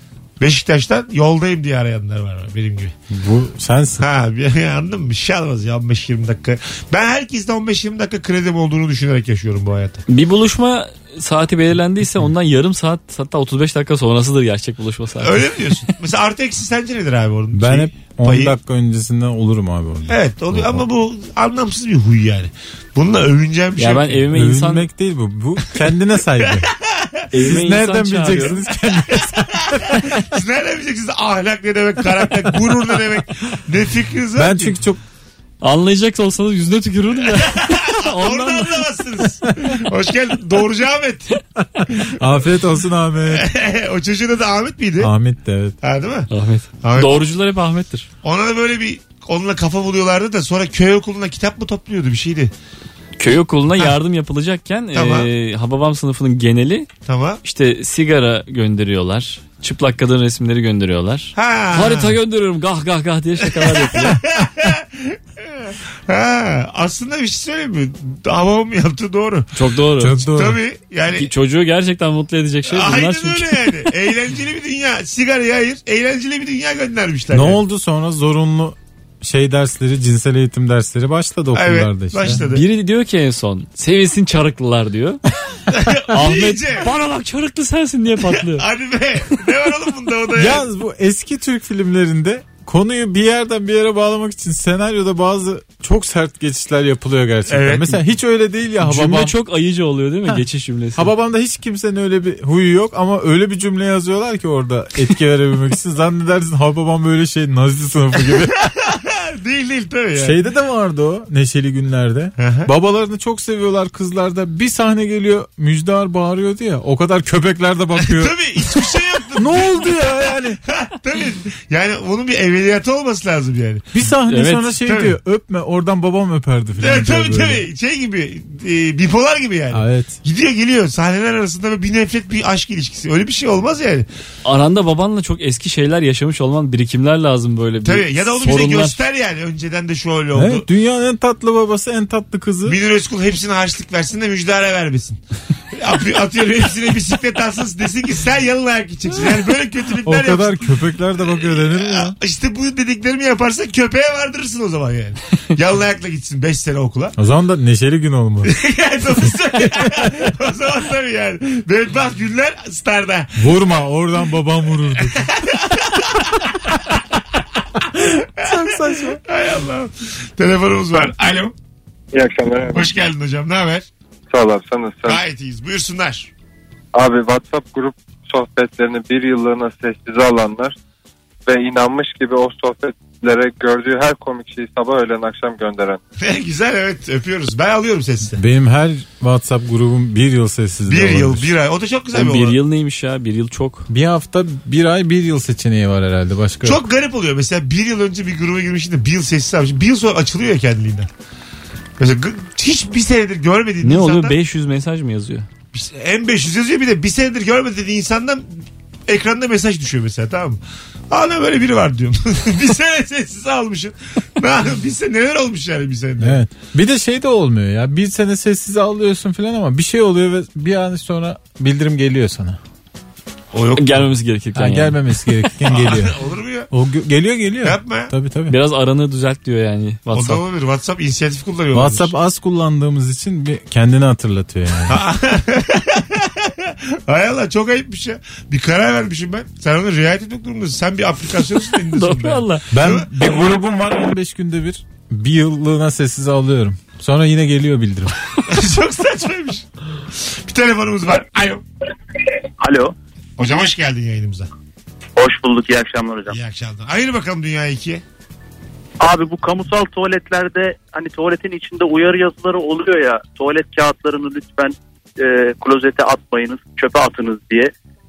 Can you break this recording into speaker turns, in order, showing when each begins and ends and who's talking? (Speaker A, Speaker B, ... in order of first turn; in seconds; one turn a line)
Speaker A: 0.4-2.9
Speaker B: 3.1-4.0
Speaker A: 4.0-10.0
Speaker C: 10.1-15.4
Speaker A: 15.2-18.5
Speaker B: 17.5-20.8
Speaker A: 20.1-24.3
Speaker C: 23.8-24.9
Speaker B: 24.3-26.7
Speaker A: 26.4-27.2
Speaker C: 27.3-28.6
Speaker B: 27.4-30.2
Speaker A: 29.1-34.7
Speaker B: 34.4-35.0
Speaker C: 35.6-38.9
Speaker A: 37.3-41.3
Speaker B: 42.1-43.5
Speaker A: 43.3-45.1
Speaker B: 45.0-45.8
Speaker A: 45.8-46.3
Speaker C: 46.3-48.1
Speaker A: 46.8-47.3
Speaker A: 48.2-52.5
Speaker C: 53.2-56.9
Speaker A: 54.9-55.3
Speaker A: 57.0-57.4
Speaker C: 57.4-64.2
Speaker A: 61.4-62.1
Speaker A: 63.5-69.5
Speaker C: 69.5-70.2
Speaker B: 70.0-70.6
Speaker A: 70.0-71.3
Speaker C: 71.1-73.8
Speaker A: 72.7-77.6
Speaker B: 77.3-82.4
Speaker A: 81.5-82.6
Speaker C: 82.4-85.2
Speaker A: 85.7-86.9
Speaker C: 86.1-88.6
Speaker A: 88.4-90.6
Speaker B: 90.3-99.3
Speaker A: 97.5-98.0
Speaker C: 98.8-101.1
Speaker B: 101.0-108.6
Speaker A: 108.7-110.4
Speaker B: 110.2-120.6
Speaker A: 112.4-112.7
Speaker A: 118.0-120.0
Speaker A: 120.6-123.9
Speaker B: 123.9-127.7
Speaker C: 124.3-124.7
Speaker A: 124.8-125.2
Speaker A: 126.8-134.1
Speaker B: 129.7-130.2
Speaker C: 134.4-139.0
Speaker A: 137.8-140.7
Speaker B: 140.3-142.8
Speaker A: 142.7-145.2
Speaker A: 145.7-150.7
Speaker B: 150.0-152.2
Speaker A: 151.2-157.1
Speaker B: 157.2-158.5
Speaker A: 158.4-163.5
Speaker B: 159.7-160.2
Speaker B: 163.4-165.3
Speaker A: 165.1-166.8
Speaker A: 167.8-171.5
Speaker B: 168.4-169.2
Speaker D: 172.1-172.8
Speaker A: 172.7-173.9
Speaker D: 174.3-175.2
Speaker A: 175.1-176.3
Speaker D: 176.9-180.7
Speaker D: 181.4-186.0
Speaker A: 186.2-188.4
Speaker B: 188.4-191.5
Speaker A: 190.9-192.6
Speaker C: 192.1-193.9
Speaker B: 193.9-196.8
Speaker A: 196.6-201.1
Speaker A: 202.0-204.3
Speaker C: 203.8-205.5
Speaker A: 205.7-216.4
Speaker B: 216.2-222.6
Speaker A: 223.5-224.1
Speaker C: 223.8-225.1
Speaker B: 224.5-226.2
Speaker A: 225.6-226.7
Speaker B: 226.7-228.5
Speaker A: 227.6-228.1
Speaker C: 228.5-230.4
Speaker A: 230.1-232.1
Speaker B: 231.7-235.0
Speaker A: 234.9-243.1
Speaker C: 241.9-242.6
Speaker B: 242.7-248.2
Speaker A: 248.5-251.6
Speaker E: 252.6-252.9
Speaker A: 253.4-254.5
Speaker E: 255.2-256.4
Speaker A: 256.3-258.0
Speaker E: 259.0-267.7